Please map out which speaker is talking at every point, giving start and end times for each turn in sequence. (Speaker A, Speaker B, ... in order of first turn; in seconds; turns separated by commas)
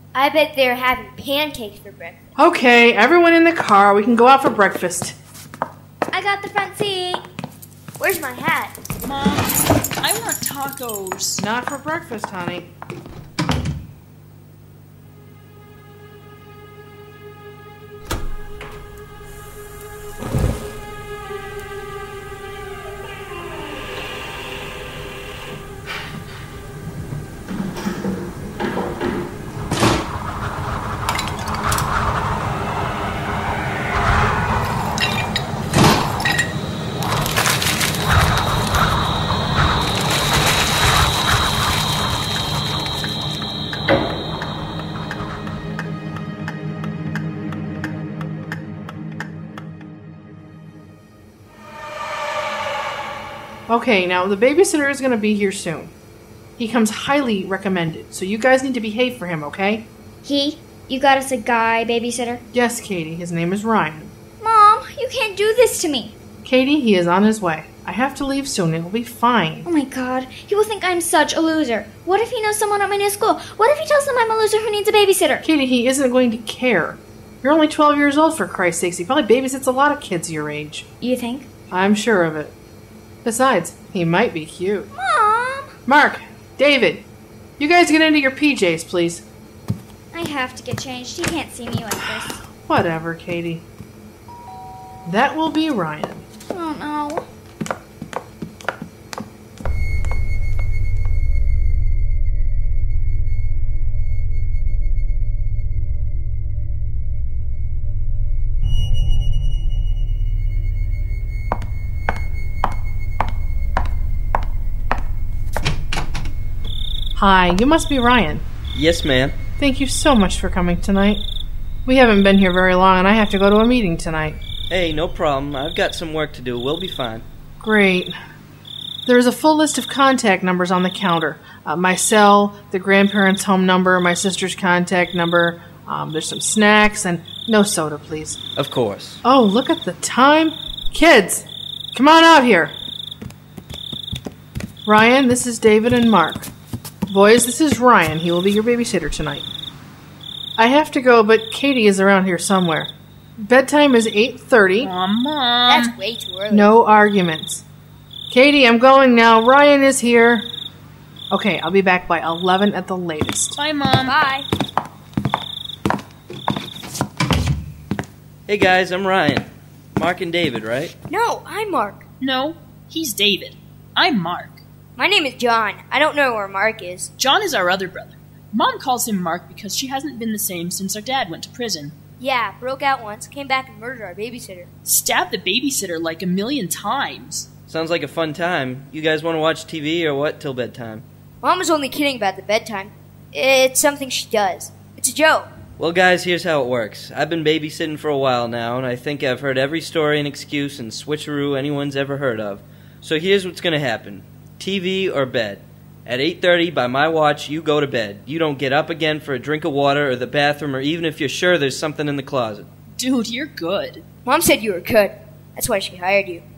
Speaker A: 0.1-2.4, Speaker B: 2.4-5.2, Speaker C: 6.1-7.2, Speaker A: 8.0-8.8, Speaker D: 9.0-11.4, Speaker B: 11.4-12.7, Speaker B: 53.7-55.9, Speaker B: 56.6-59.9, Speaker C: 60.2-62.4, Speaker B: 62.5-64.1, Speaker C: 64.4-66.2, Speaker B: 66.5-69.7, Speaker C: 69.7-75.5, Speaker B: 75.4-80.8, Speaker C: 81.0-81.5, Speaker B: 81.7-82.5, Speaker B: 83.2-84.9, Speaker C: 84.9-85.7, Speaker B: 85.9-87.0, Speaker B: 87.6-89.2, Speaker C: 90.1-92.4, Speaker B: 92.7-93.7, Speaker B: 95.0-96.2, Speaker C: 96.5-97.3, Speaker B: 117.2-118.4, Speaker E: 118.8-119.3, Speaker B: 119.6-121.2, Speaker B: 121.9-124.4, Speaker E: 124.7-127.2, Speaker B: 127.6-128.2, Speaker B: 129.1-138.4, Speaker E: 138.6-139.2, Speaker B: 139.2-142.8, Speaker B: 144.8-146.5, Speaker B: 147.1-149.5, Speaker B: 150.6-154.9, Speaker D: 154.8-155.9, Speaker A: 155.7-156.7, Speaker B: 156.5-157.6, Speaker B: 158.3-160.5, Speaker B: 161.3-163.6, Speaker D: 163.6-164.2, Speaker A: 164.0-164.5, Speaker E: 168.5-170.9, Speaker A: 171.1-172.0, Speaker D: 172.2-174.6, Speaker A: 175.0-177.1, Speaker D: 177.2-181.9, Speaker A: 182.2-184.7, Speaker D: 184.9-187.5, Speaker E: 187.7-191.0, Speaker A: 191.4-195.5, Speaker E: 195.8-212.7, Speaker D: 213.0-214.0, Speaker A: 214.3-216.4